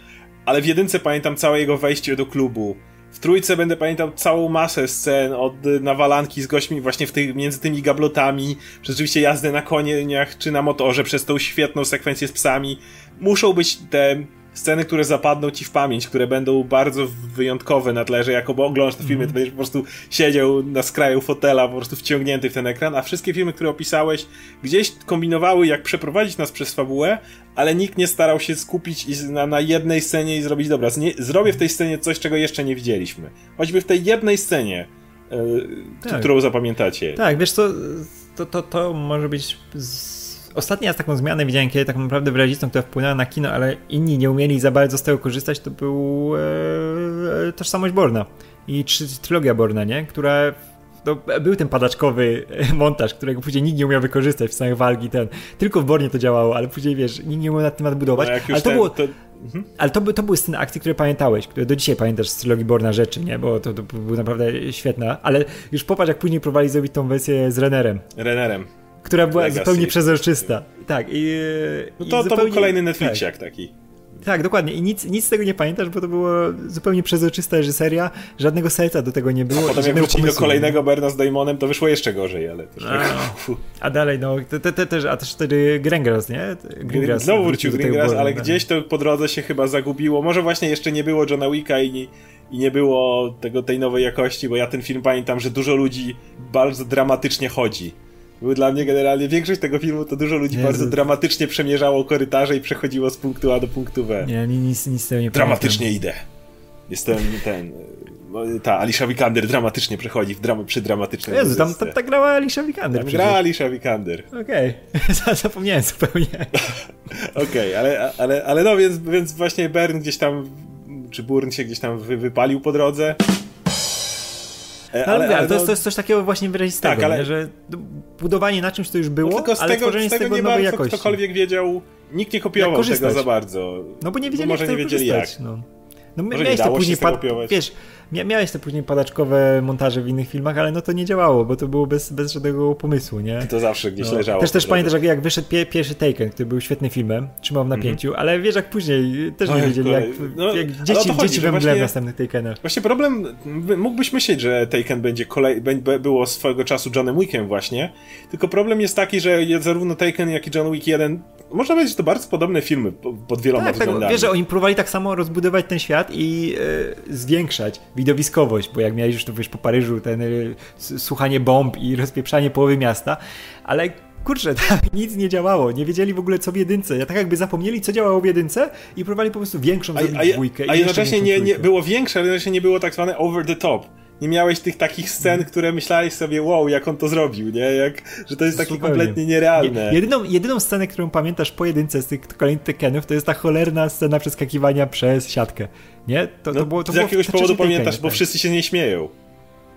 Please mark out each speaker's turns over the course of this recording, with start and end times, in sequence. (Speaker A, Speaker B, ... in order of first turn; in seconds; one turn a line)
Speaker A: 0.5-37.2
Speaker B: 19.0-19.4
Speaker B: 36.0-36.3
Speaker B: 37.1-59.0
Speaker A: 58.1-59.7
Speaker B: 59.8-68.0
Speaker A: 68.1-68.7
Speaker B: 69.0-73.2
Speaker A: 69.3-70.3
Speaker A: 72.0-73.7
Speaker B: 74.2-80.8
Speaker A: 79.5-83.6
Speaker B: 82.8-88.6
Speaker A: 86.8-104.3
Speaker B: 100.5-101.0
Speaker B: 104.2-105.9
Speaker A: 105.3-106.2
Speaker A: 106.9-112.0
Speaker B: 111.3-113.4
Speaker A: 112.9-114.3
Speaker B: 114.3-116.7
Speaker A: 116.6-123.2
Speaker A: 124.9-125.8
Speaker B: 125.0-131.2
Speaker A: 126.8-127.3
Speaker A: 129.2-135.3
Speaker B: 132.6-133.3
Speaker B: 134.0-152.6
Speaker A: 136.3-137.6
Speaker A: 143.4-144.9
Speaker A: 147.7-148.0
Speaker A: 149.4-151.9
Speaker A: 152.6-164.3
Speaker B: 163.6-181.7
Speaker A: 179.9-190.0
Speaker B: 188.5-198.2
Speaker A: 196.5-199.1